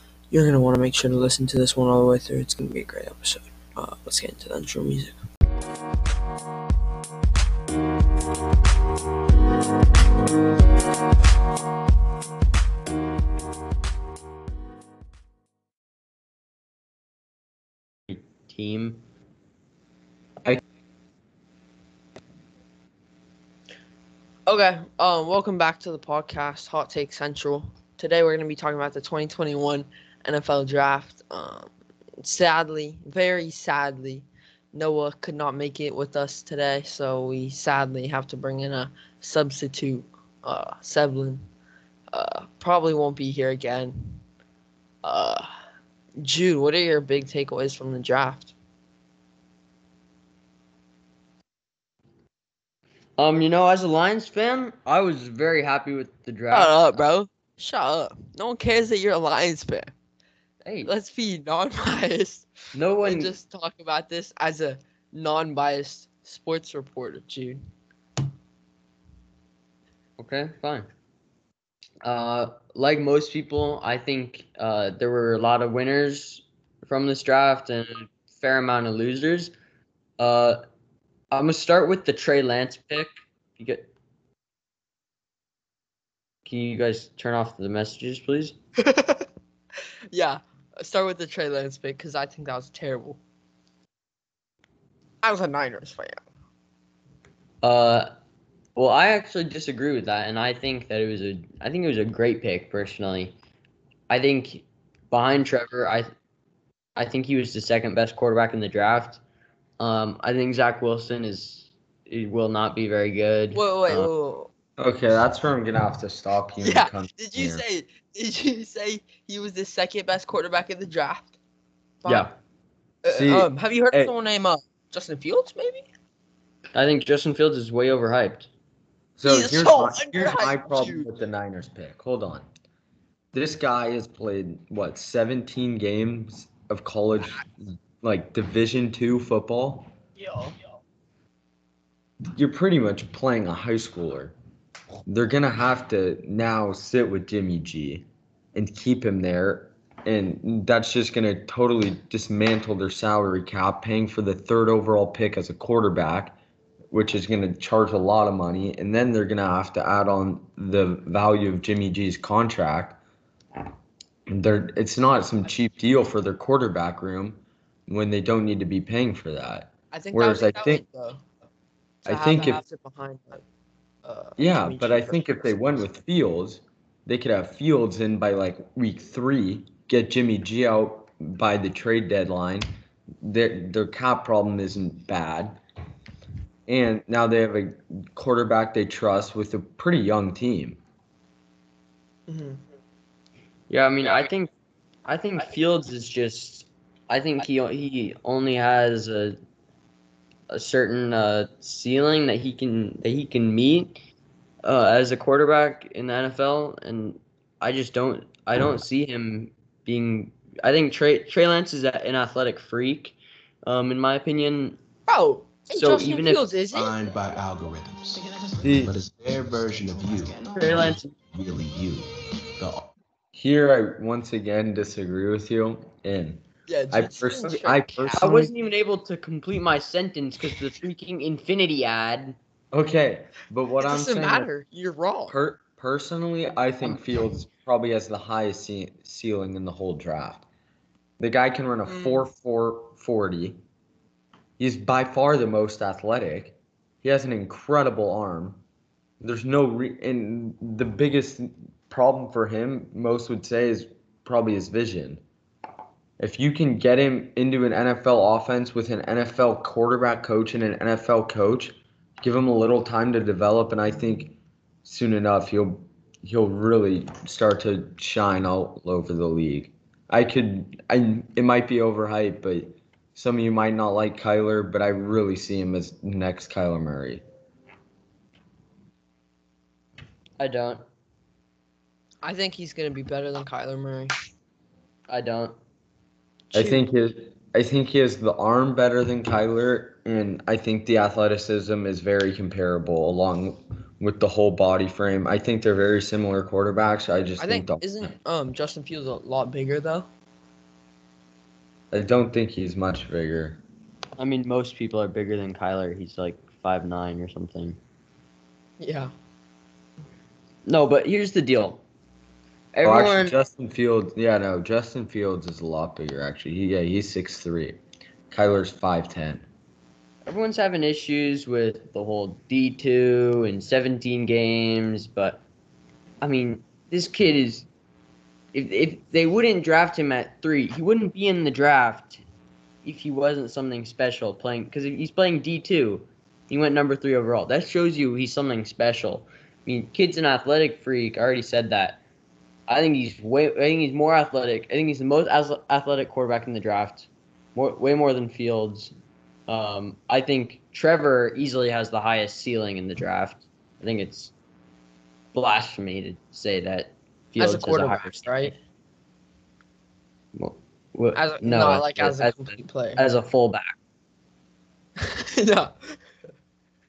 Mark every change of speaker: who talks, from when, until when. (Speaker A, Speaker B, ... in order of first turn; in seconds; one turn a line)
Speaker A: 0.3-5.2
Speaker B: 18.1-19.0
Speaker A: 24.4-41.5
Speaker A: 42.1-44.2
Speaker A: 45.0-45.5
Speaker A: 46.2-48.5
Speaker B: 53.2-57.0
Speaker A: 56.5-59.9
Speaker B: 60.6-60.9
Speaker A: 60.8-62.5
Speaker B: 62.7-63.3
Speaker A: 63.0-67.6
Speaker B: 70.2-70.9
Speaker B: 72.0-79.5
Speaker B: 80.2-80.6
Speaker B: 81.3-83.9
Speaker B: 86.4-88.5
Speaker A: 88.8-89.2
Speaker A: 90.1-93.2
Speaker A: 95.2-96.2
Speaker B: 97.6-98.1
Speaker B: 98.8-103.4
Speaker B: 104.1-106.1
Speaker B: 107.0-109.2
Speaker B: 109.8-114.1
Speaker A: 113.5-114.5
Speaker C: 114.8-117.6
Speaker A: 116.6-121.4
Speaker A: 122.0-122.3
Speaker B: 122.0-122.3
Speaker A: 123.0-125.9
Speaker C: 123.1-124.1
Speaker B: 126.7-128.5
Speaker C: 129.2-132.5
Speaker A: 129.2-131.1
Speaker C: 133.3-139.9
Speaker A: 140.2-140.5
Speaker C: 142.3-144.3
Speaker C: 145.1-156.4
Speaker C: 156.9-163.0
Speaker C: 164.3-170.8
Speaker A: 169.9-171.2
Speaker C: 172.1-172.6
Speaker A: 172.1-173.4
Speaker A: 174.0-175.3
Speaker C: 174.4-182.7
Speaker C: 183.2-185.6
Speaker C: 186.7-190.8
Speaker A: 192.3-192.6
Speaker B: 193.7-194.5
Speaker B: 195.1-199.4
Speaker B: 200.5-204.0
Speaker B: 204.6-214.8
Speaker A: 215.1-216.9
Speaker B: 215.7-216.4
Speaker D: 216.7-222.9
Speaker C: 218.6-218.9
Speaker B: 220.6-221.1
Speaker C: 223.3-228.5
Speaker A: 226.7-228.2
Speaker B: 228.1-232.4
Speaker C: 232.7-234.5
Speaker A: 233.8-235.4
Speaker C: 235.3-240.4
Speaker C: 241.2-243.6
Speaker C: 244.6-248.6
Speaker C: 249.2-255.2
Speaker C: 256.2-277.2
Speaker B: 280.4-280.8
Speaker A: 282.2-284.2
Speaker B: 285.1-285.6
Speaker A: 286.5-286.9
Speaker C: 286.5-298.1
Speaker A: 297.4-300.1
Speaker C: 301.9-303.6
Speaker B: 304.2-307.8
Speaker A: 308.8-309.1
Speaker B: 310.6-311.8
Speaker B: 312.7-313.4
Speaker C: 312.8-317.8
Speaker C: 318.3-319.4
Speaker B: 320.2-325.4
Speaker B: 326.2-327.7
Speaker B: 328.5-332.2
Speaker B: 332.8-342.0
Speaker B: 342.7-348.9
Speaker B: 349.5-354.3
Speaker B: 355.3-358.5
Speaker A: 357.4-358.5
Speaker B: 360.4-363.8
Speaker A: 361.1-363.0
Speaker A: 365.0-366.0